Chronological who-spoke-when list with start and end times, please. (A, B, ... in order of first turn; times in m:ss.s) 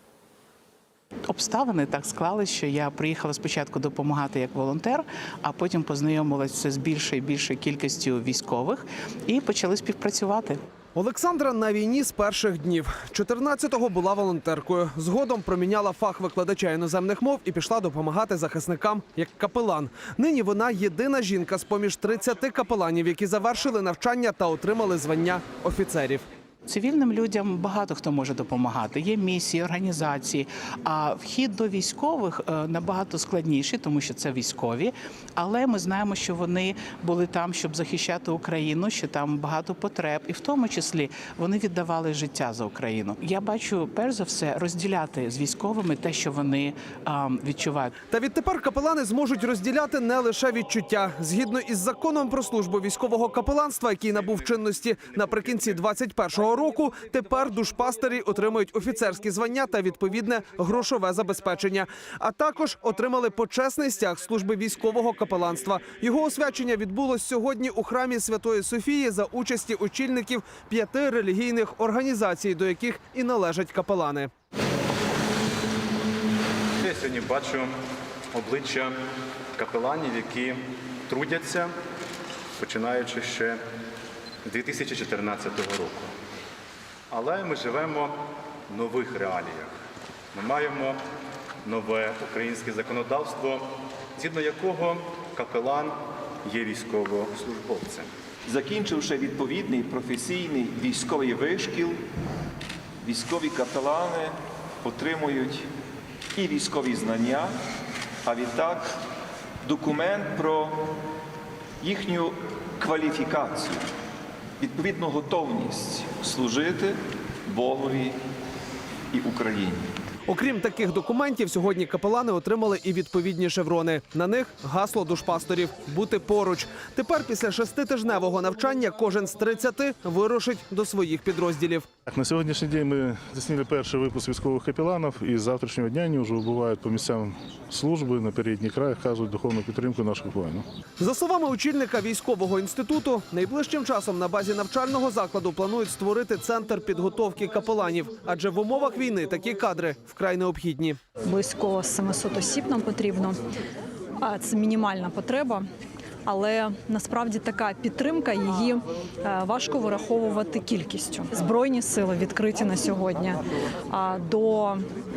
0:01.3-0:10.6 A
0:11.0-0:26.2 B
0:26.7-0:47.9 A
0:48.1-1:14.3 B
1:16.8-1:17.8 C
1:18.3-1:19.0 C
1:19.6-1:21.7 C
1:22.6-1:23.6 C
1:24.4-1:26.1 C
1:27.1-1:28.2 C
1:28.7-1:29.7 C
1:30.3-1:31.0 C
1:31.7-1:33.6 C
1:34.2-1:38.1 C
1:38.5-1:42.0 D
1:43.0-1:45.7 D
1:46.3-1:47.6 D
1:48.2-1:49.0 D
1:49.6-1:50.9 D
1:51.8-1:53.8 D
1:54.6-1:58.2 D
1:59.1-2:00.0 D
2:00.3-2:11.9 B
2:12.1-2:20.7 E
2:21.0-2:31.0 B
2:31.3-2:33.4 F
2:34.2-2:35.6 F
2:36.3-2:43.4 F
2:43.9-2:44.8 F